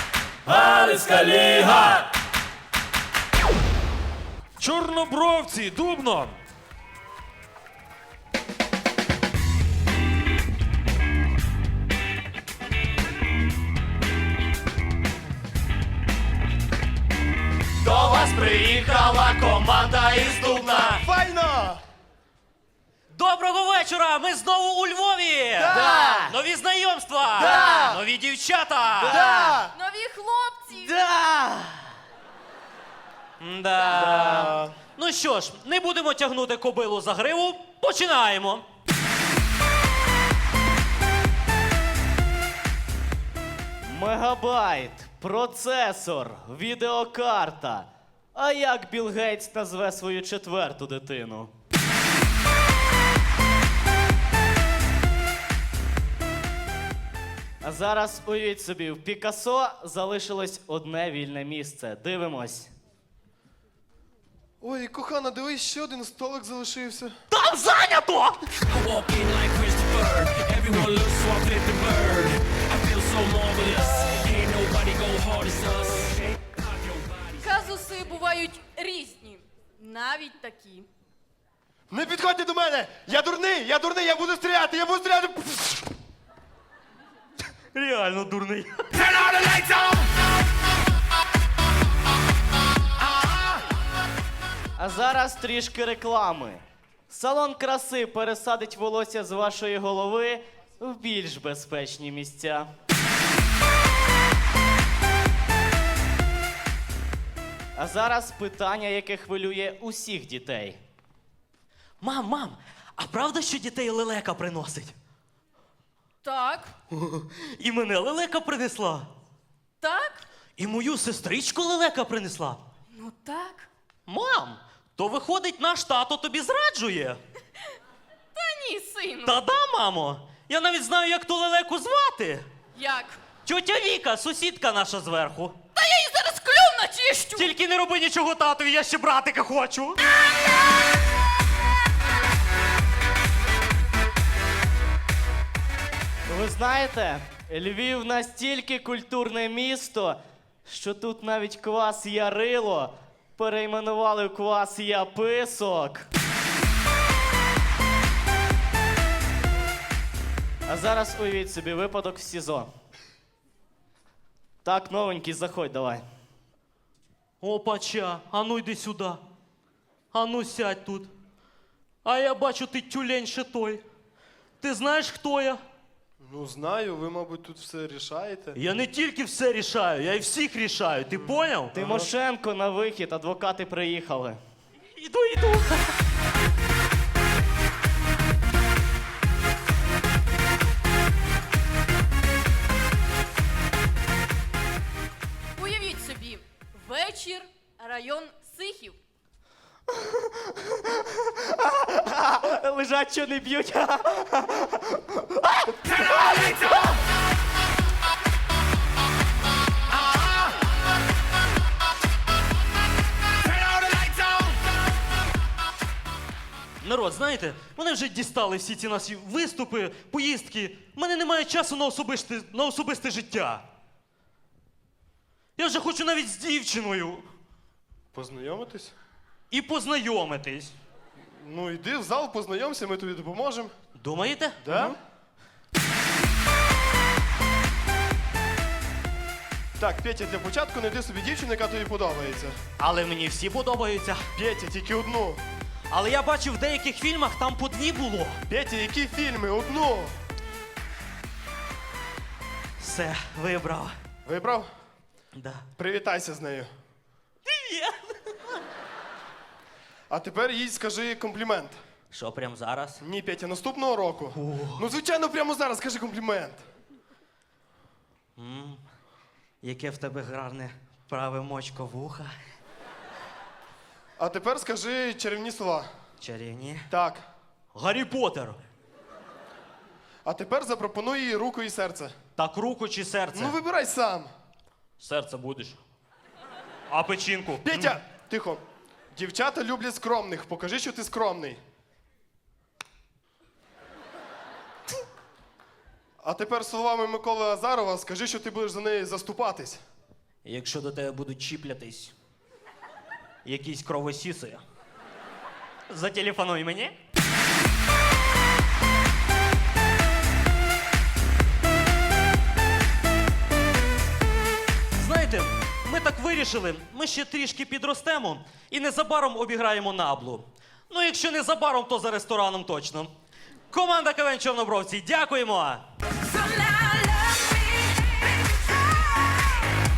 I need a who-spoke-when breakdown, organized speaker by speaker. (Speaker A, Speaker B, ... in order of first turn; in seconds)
Speaker A: 0.8-1.1, 25.7-26.3, 30.7-31.9, 43.8-51.5, 57.6-62.7, 94.8-102.7, 107.8-110.8, 146.3-156.1, 160.7-162.7, 164.6-166.0, 181.7-184.4, 200.4-206.9
Speaker B: 1.2-1.8, 4.6-6.3, 17.8-21.0, 23.1-29.2, 33.4-38.6, 67.3-68.6, 70.6-71.5, 87.7-89.5, 112.0-114.9, 117.0-119.1, 120.6-122.6, 124.1-127.2, 129.2-132.5, 133.4-135.6, 137.3-140.0, 167.4-169.2, 170.1-171.1, 172.0-173.8, 174.6-175.6, 178.5-181.8, 184.9-185.9, 216.8-223.6, 225.6-227.3, 229.5-230.7, 233.9-235.0, 242.8-244.3, 245.9-248.4, 252.8-254.0, 255.3-255.6, 257.4-258.1, 262.1-263.0, 264.3-264.9, 268.4-268.8, 269.6-272.3, 276.2-276.9, 277.7-278.6, 282.4-283.6, 285.0-285.8, 286.9-287.9, 300.4-302.1, 303.4-304.6, 305.9-306.9, 314.9-323.1, 323.7-325.8
Speaker C: 20.7-21.8, 25.6-26.2, 27.3-28.0, 29.0-29.7, 33.9-34.8, 64.6-67.2, 81.9-85.9, 176.2-178.6, 181.1-182.1, 228.1-228.9, 231.3-233.7, 234.6-235.0, 239.8-242.6, 244.3-245.4, 248.5-250.2, 254.2-254.7, 255.8-256.7, 260.1-261.8, 263.0-266.6, 274.2-275.9, 276.9-277.2, 280.2-282.1, 283.3-284.3, 287.6-288.6, 289.1-291.6, 296.2-299.8
Speaker D: 27.6-27.9, 29.3-30.9, 77.4-80.9, 116.2-116.7, 119.8-120.2, 122.9-123.7, 128.3-129.4, 132.8-133.3, 135.7-137.5, 195.6-199.0, 326.2-329.7
Speaker E: 68.8-76.2